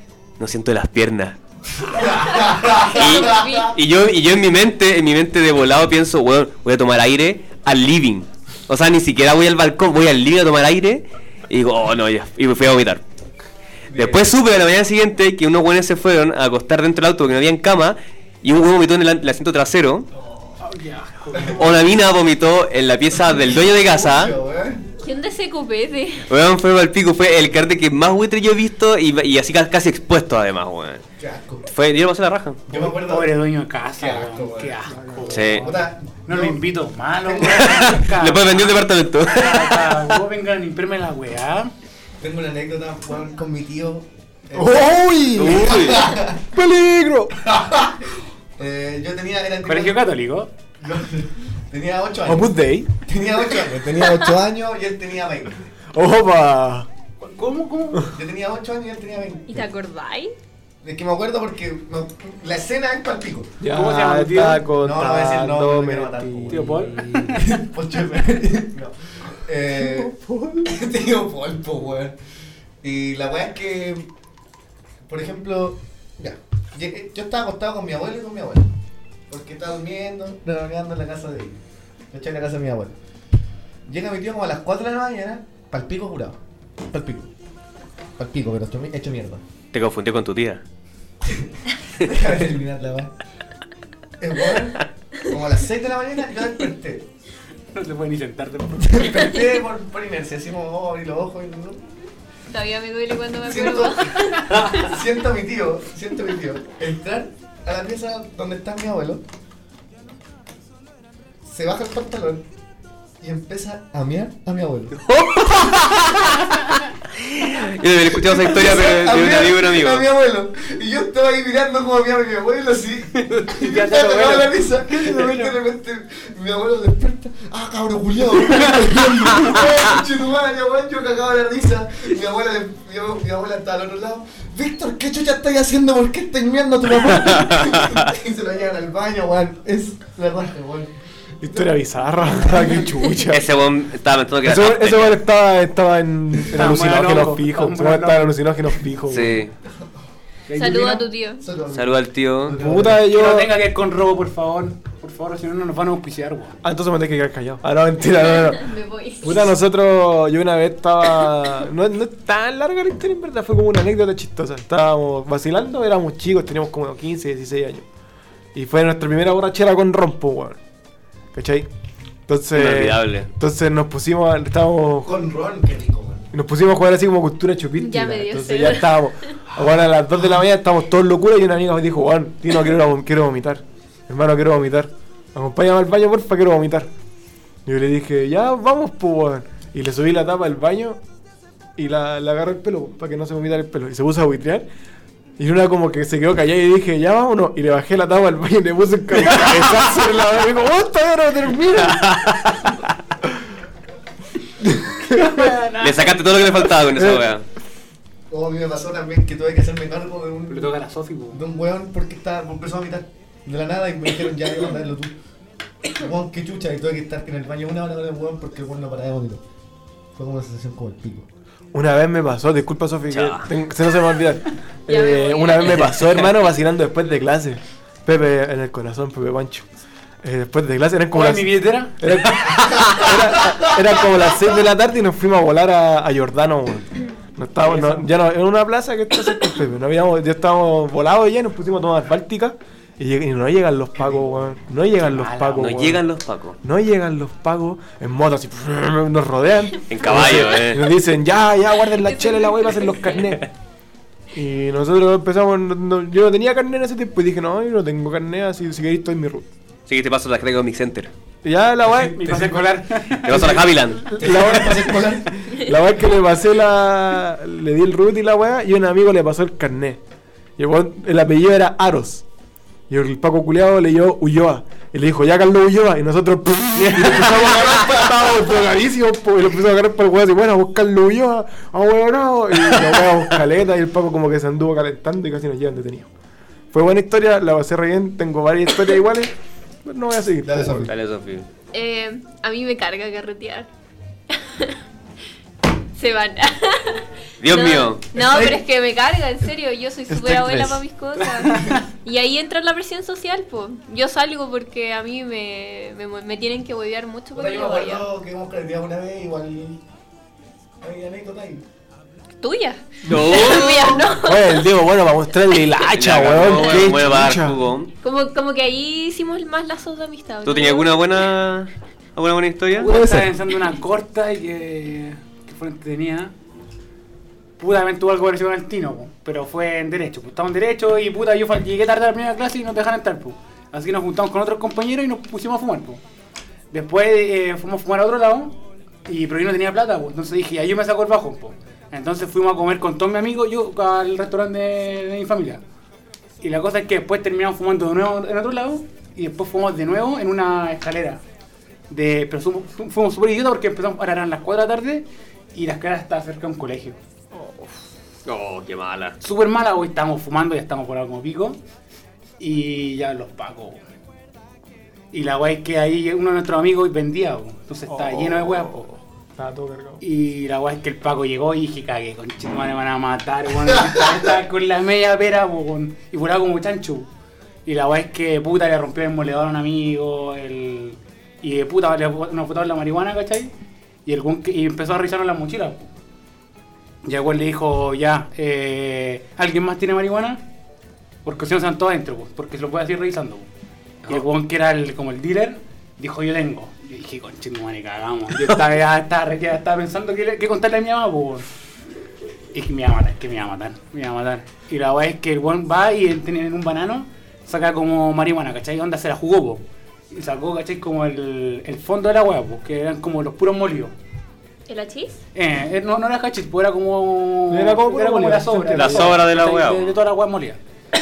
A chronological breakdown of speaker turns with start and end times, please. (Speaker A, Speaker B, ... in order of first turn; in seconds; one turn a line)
Speaker A: 0.4-1.4
Speaker B: 1.9-3.7
Speaker A: 2.9-13.0
Speaker C: 2.9-3.7
Speaker B: 13.9-14.3
Speaker A: 13.9-20.1
Speaker B: 20.1-20.6
Speaker D: 20.6-21.7
Speaker B: 21.3-21.6
Speaker A: 21.6-24.4
Speaker B: 23.5-24.9
Speaker C: 25.0-26.3
Speaker A: 26.3-31.0
Speaker B: 31.2-31.7
Speaker A: 31.7-32.6
Speaker B: 32.7-33.4
Speaker D: 32.7-38.7
Speaker B: 34.0-36.6
Speaker A: 35.3-35.7
Speaker B: 37.2-38.1
Speaker A: 37.6-40.1
Speaker D: 39.3-41.7
Speaker B: 42.2-46.4
Speaker E: 44.5-47.4
Speaker A: 45.4-46.1
Speaker B: 47.4-50.0
Speaker D: 49.7-50.5
Speaker B: 50.8-55.6
Speaker E: 52.2-52.9
Speaker E: 55.9-56.9
Speaker D: 57.2-58.1
Speaker B: 58.1-59.7
Speaker C: 59.5-60.3
Speaker B: 60.8-63.5
Speaker E: 63.6-67.6
Speaker D: 63.7-64.7
Speaker B: 64.8-70.1
Speaker D: 66.5-67.4
Speaker E: 69.8-70.7
Speaker B: 70.6-72.2
Speaker B: 72.8-74.1
Speaker B: 75.1-78.7
Speaker B: 79.3-81.6
Speaker B: 82.1-83.0
Speaker B: 83.9-86.4
Speaker B: 86.9-87.3
Speaker B: 88.2-89.4
Speaker A: 89.7-90.6
Speaker B: 91.2-93.1
Speaker B: 94.2-97.1
Speaker D: 97.7-99.0
Speaker B: 98.8-101.9
Speaker C: 102.5-104.7
Speaker B: 103.4-109.2
Speaker B: 111.5-112.4
Speaker B: 113.2-115.0
Speaker A: 115.1-116.6
Speaker A: 117.2-120.1
Speaker B: 118.2-140.9
Speaker D: 123.2-125.5
Speaker E: 141.4-143.5
Speaker B: 141.4-141.7
Speaker B: 142.3-142.9
Speaker A: 143.3-145.2
Speaker E: 144.4-149.4
Speaker D: 146.6-148.4
Speaker A: 149.1-149.5
Speaker D: 150.5-151.1
Speaker C: 150.6-151.4
Speaker B: 151.4-153.0
Speaker A: 151.7-152.6
Speaker E: 152.6-153.5
Speaker D: 153.0-156.6
Speaker E: 156.6-167.9
Speaker C: 158.3-159.5
Speaker E: 168.5-170.6
Speaker E: 171.3-171.7
Speaker E: 172.3-175.3
Speaker A: 172.5-173.3
Speaker B: 175.0-176.3
Speaker E: 176.3-186.9
Speaker C: 177.8-178.9
Speaker E: 187.7-191.0
Speaker E: 191.8-194.7
Speaker E: 195.4-203.4
Speaker A: 202.0-202.4
Speaker E: 204.6-205.5
Speaker D: 205.1-206.3
Speaker A: 205.8-207.4
Speaker E: 206.9-207.3
Speaker B: 208.3-210.7
Speaker D: 210.5-211.4
Speaker B: 211.3-215.1
Speaker B: 215.9-219.4
Speaker B: 220.2-221.3
Speaker E: 221.7-229.7
Speaker A: 223.1-223.5
Speaker C: 224.9-226.3
Speaker E: 230.2-246.1
Speaker D: 231.1-232.0
Speaker A: 232.3-233.0
Speaker D: 237.6-238.1
Speaker D: 245.0-245.7
Speaker A: 245.6-246.6
Speaker E: 246.6-253.5
Speaker A: 249.9-250.9
Speaker C: 252.3-252.8
Speaker E: 254.3-259.5
Speaker A: 259.9-261.1
Speaker E: 261.4-262.6
Speaker D: 262.0-263.6
Speaker A: 263.2-264.1
Speaker E: 263.3-270.0
Speaker B: 264.1-265.5
Speaker E: 270.6-272.2
Speaker E: 272.9-286.1
Speaker A: 276.8-277.4
Speaker B: 277.2-278.1
Speaker E: 286.7-289.3
Speaker E: 289.9-290.9
Speaker B: 290.4-290.9
Speaker A: 290.9-291.5
Speaker C: 291.7-293.7
Speaker C: 294.3-294.8
Speaker C: 295.9-308.1
Speaker A: 297.4-298.1
Speaker B: 298.1-298.6
Speaker E: 300.1-300.8
Speaker D: 301.4-301.8
Speaker B: 307.3-309.8
Speaker B: 310.8-311.6
Speaker C: 312.4-314.5
Speaker E: 313.1-317.6
Speaker A: 313.1-314.0
Speaker A: 315.8-317.9
Speaker C: 318.0-321.1
Speaker A: 320.4-322.9
Speaker D: 322.8-326.3
Speaker E: 322.9-323.3
Speaker D: 327.6-336.0
Speaker D: 336.7-345.6
Speaker D: 346.4-351.2
Speaker D: 351.9-357.0
Speaker E: 357.3-357.7
Speaker A: 358.2-359.2
Speaker D: 359.2-361.6
Speaker D: 362.4-363.8
Speaker D: 365.1-368.8
Speaker E: 367.9-370.0
Speaker D: 370.0-377.1
Speaker D: 377.7-383.5
Speaker D: 384.1-385.9
Speaker D: 387.0-390.4
Speaker D: 391.2-393.5
Speaker D: 394.1-401.5
Speaker D: 402.5-413.9
Speaker C: 414.7-415.2
Speaker D: 415.4-420.6
Speaker E: 417.5-419.2
Speaker A: 418.7-419.9